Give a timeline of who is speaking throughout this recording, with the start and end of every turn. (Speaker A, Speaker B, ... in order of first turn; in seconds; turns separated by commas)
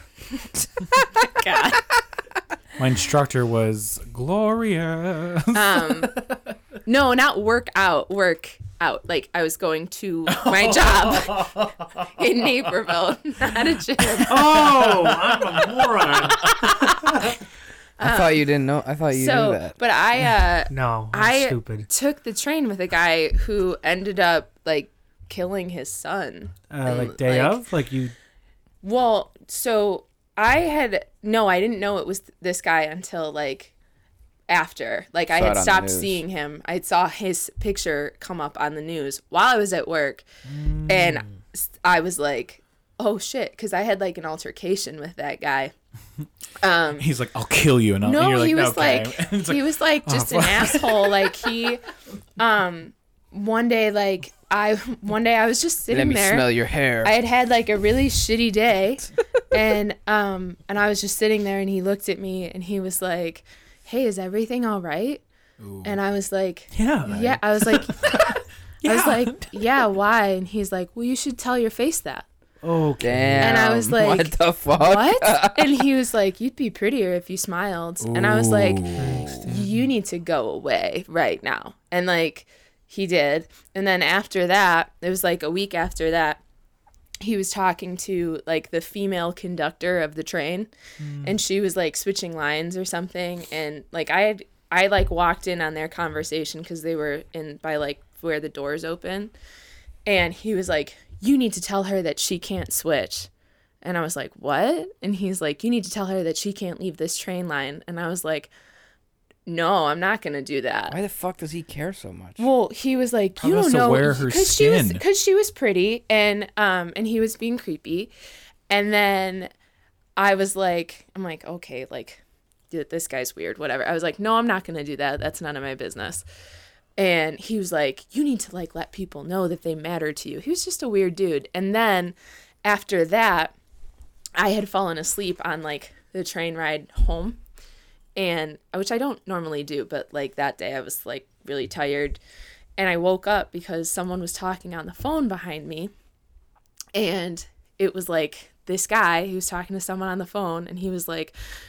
Speaker A: 0.3-1.9, Speaker B: 2.8-6.4, Speaker A: 5.5-6.2, Speaker A: 6.8-14.7, Speaker B: 10.4-11.5, Speaker C: 14.3-16.5, Speaker B: 14.6-16.5, Speaker A: 16.4-17.3, Speaker A: 18.0-18.5, Speaker D: 18.0-19.7, Speaker A: 19.1-27.6, Speaker C: 20.7-21.9, Speaker C: 26.7-28.1, Speaker A: 28.8-33.7, Speaker A: 34.5-40.2, Speaker D: 35.3-36.2, Speaker C: 40.5-41.4, Speaker A: 40.9-45.7, Speaker A: 46.6-47.1, Speaker B: 47.0-51.5, Speaker A: 48.0-51.9, Speaker A: 52.4-65.2, Speaker D: 55.9-57.1, Speaker B: 65.6-66.0, Speaker A: 65.8-68.3, Speaker C: 66.7-67.2, Speaker D: 67.1-67.4, Speaker A: 68.8-72.2, Speaker C: 72.6-73.6, Speaker D: 73.0-75.8, Speaker A: 73.4-86.4, Speaker B: 78.0-79.4, Speaker C: 79.0-79.7, Speaker A: 87.2-90.7, Speaker C: 91.0-91.3, Speaker A: 91.2-99.3, Speaker A: 100.1-103.3, Speaker A: 103.8-108.5, Speaker A: 109.5-111.0, Speaker D: 110.9-112.5, Speaker A: 112.4-118.1, Speaker B: 113.4-115.0, Speaker A: 118.7-119.5, Speaker A: 120.2-122.2, Speaker A: 122.7-126.2, Speaker A: 127.0-133.5, Speaker A: 134.4-137.4, Speaker A: 138.2-142.2, Speaker A: 142.8-145.9, Speaker A: 146.9-151.3